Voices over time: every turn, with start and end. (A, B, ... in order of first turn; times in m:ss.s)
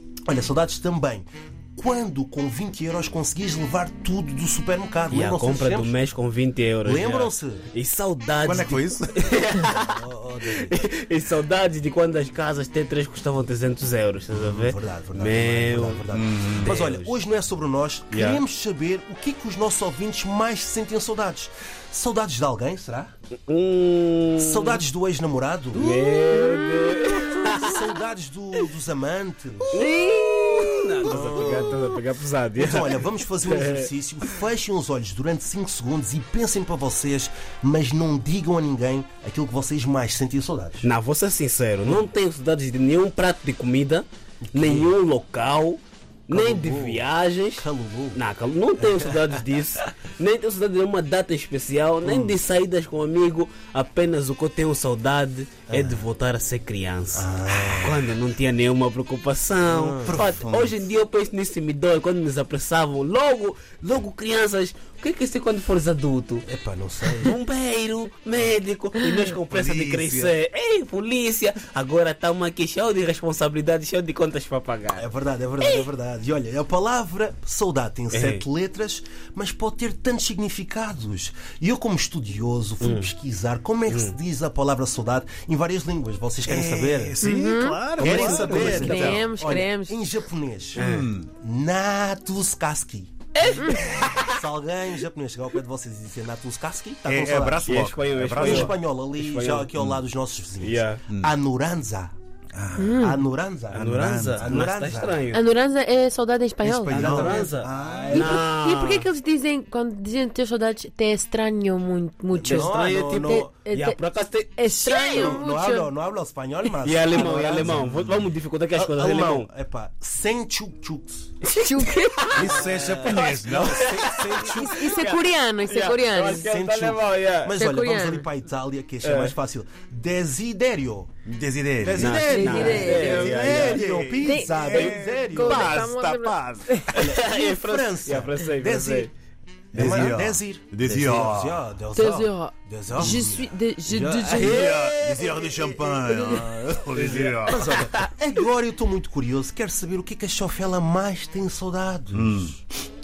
0:00.3-0:06.0 A
0:05.1-0:17.2 B
0:06.8-0:07.6 A
0:08.4-0:09.2 C
0:09.6-0:10.8 A
0:14.3-0:23.1 A
0:16.1-0:16.8 C
0:18.1-0:18.4 B
0:23.5-0:24.8 B
0:24.4-0:26.0 A
0:25.7-0:28.0 B
0:27.5-0:29.9 A
0:29.7-0:34.4 B
0:31.0-0:31.9 A
0:32.6-0:40.8 A
0:40.8-1:06.5 B
0:44.5-0:44.9 A
0:46.3-0:47.0 A
0:47.6-0:48.2 A
0:48.8-0:49.8 A
0:52.0-0:52.4 A
0:55.7-0:56.0 A
0:57.1-0:58.1 A
0:59.6-1:00.4 A
1:00.1-1:00.9 C
1:06.5-1:07.4 A
1:07.0-1:15.1 B
1:09.5-1:10.4 C
1:15.0-1:27.2 A
1:15.6-1:15.9 B
1:18.1-1:18.4 B
1:22.8-1:23.2 B
1:23.9-1:24.2 B
1:26.5-1:29.3 C
1:27.2-1:27.9 D
1:28.0-1:42.1 A
1:28.0-1:29.7 B
1:28.6-1:30.1 D
1:30.8-1:31.1 B
1:30.8-1:31.3 C
1:33.4-1:34.4 B
1:33.6-1:33.9 D
1:37.0-1:38.8 C
1:37.6-1:39.8 B
1:40.6-1:41.0 B
1:41.1-1:41.3 C
1:42.5-1:43.1 C
1:42.8-1:43.2 D
1:43.0-1:45.3 A
1:43.7-1:45.0 C
1:43.7-1:45.4 B
1:45.3-1:47.2 D
1:46.6-1:48.4 C
1:46.9-1:49.1 B
1:47.0-1:48.4 A
1:48.1-1:54.0 D
1:52.3-1:53.6 A
1:52.4-1:55.4 B
1:54.6-1:55.9 D
1:55.0-1:57.9 A
1:56.8-1:59.5 B
1:57.4-1:58.3 C
1:58.7-2:01.4 A
2:01.4-2:02.3 D
2:01.9-2:07.6 B
2:02.3-2:03.9 C
2:02.4-2:04.9 A
2:04.4-2:06.5 D
2:06.4-2:11.1 A
2:07.6-2:08.3 D
2:09.0-2:09.4 B
2:11.2-2:15.5 C
2:11.8-2:15.9 A
2:11.9-2:14.0 B
2:12.2-2:16.9 D
2:15.3-2:19.1 B
2:16.9-2:19.1 A
2:19.7-2:21.6 C
2:19.7-2:32.6 A
2:19.8-2:20.1 B
2:22.0-2:25.4 D
2:24.4-2:27.8 C
2:24.4-2:24.7 B
2:26.0-2:26.4 D
2:27.0-2:28.1 B
2:32.1-2:32.6 C